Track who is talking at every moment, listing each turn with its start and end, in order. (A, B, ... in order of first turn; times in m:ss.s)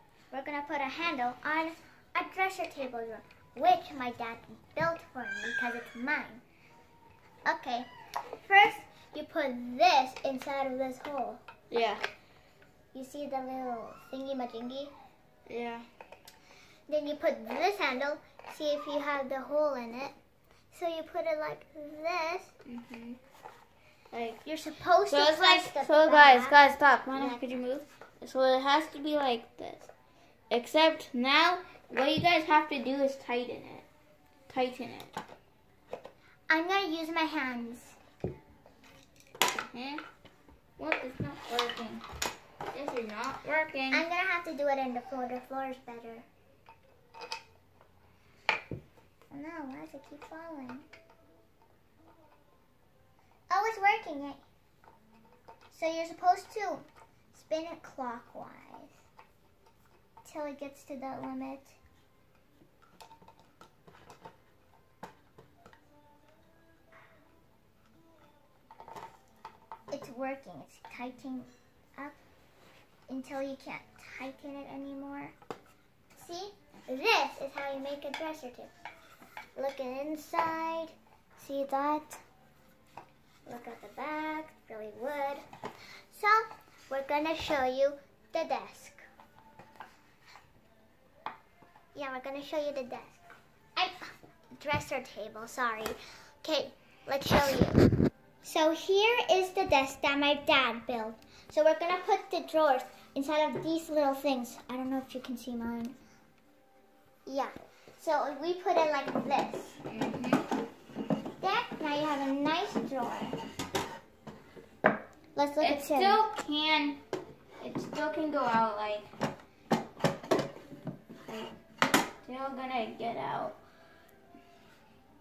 0:00.3-0:06.4 A
0:07.4-0:07.9 A
0:08.4-0:11.4 A
0:11.7-0:12.0 B
0:12.9-0:14.9 A
0:15.5-0:15.8 B
0:16.9-0:20.1 A
0:20.7-0:22.5 A
0:22.7-0:23.2 B
0:24.1-0:24.4 B
0:24.4-0:27.6 A
0:25.1-0:29.9 B
0:30.5-0:33.8 B
0:34.5-0:35.1 B
0:36.5-0:38.0 A
0:39.5-0:40.0 B
0:40.8-0:42.0 B
0:42.7-0:44.0 B
0:43.9-0:46.2 A
0:49.3-0:50.8 A
0:53.5-0:54.4 A
0:55.7-0:59.0 A
1:00.2-1:01.8 A
1:09.9-1:12.2 A
1:13.1-1:15.3 A
1:16.1-1:18.7 A
1:19.6-1:22.2 A
1:23.4-1:25.4 A
1:26.1-1:29.1 A
1:31.9-1:33.2 A
1:33.8-1:37.8 A
1:38.4-1:46.0 A
1:47.2-1:49.8 A
1:49.9-1:50.4 B
1:51.4-1:53.4 A
1:55.3-1:56.2 A
1:55.6-1:57.0 B
1:57.6-1:59.1 B
2:02.2-2:03.6 B